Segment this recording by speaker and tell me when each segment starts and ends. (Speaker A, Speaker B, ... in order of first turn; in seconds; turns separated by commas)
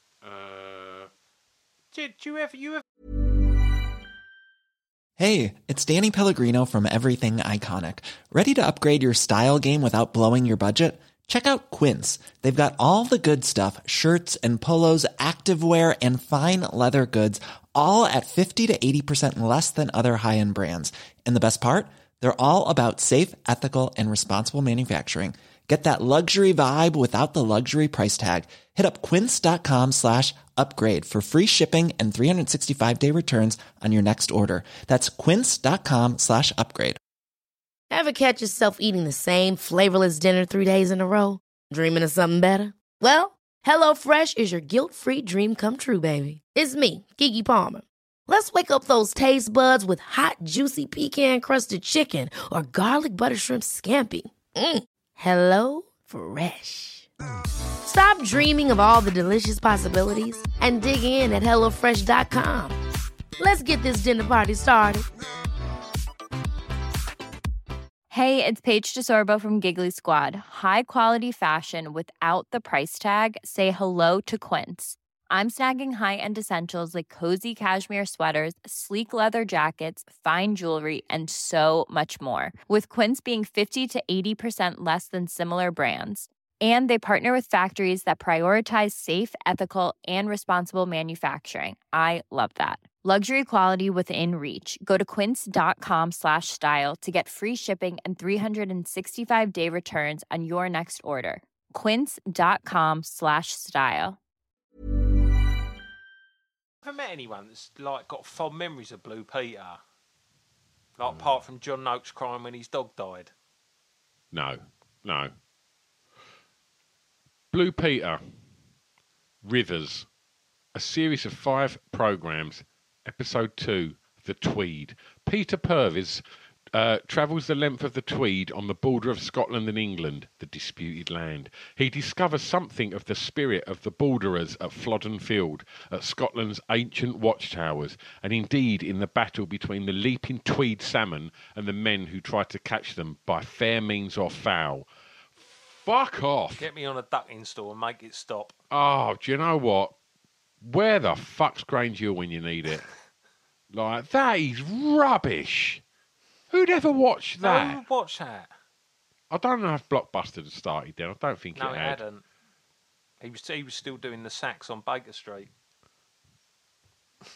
Speaker A: 0.2-1.1, Speaker B: 1.9-2.8, Speaker C: 5.2-37.0, Speaker D: 37.9-57.1, Speaker D: 57.8-62.8, Speaker D: 63.4-65.1, Speaker E: 68.1-104.2, Speaker B: 106.8-109.8, Speaker B: 111.0-113.3, Speaker A: 111.0-111.4, Speaker A: 114.3-115.3, Speaker A: 117.5-118.2, Speaker A: 119.4-120.1, Speaker A: 120.7-146.7, Speaker B: 146.6-148.5, Speaker A: 148.7-149.9, Speaker A: 150.6-152.9, Speaker A: 153.7-155.8, Speaker A: 156.5-157.8, Speaker B: 157.4-158.5, Speaker A: 159.3-162.0, Speaker B: 161.5-162.2, Speaker B: 163.2-165.5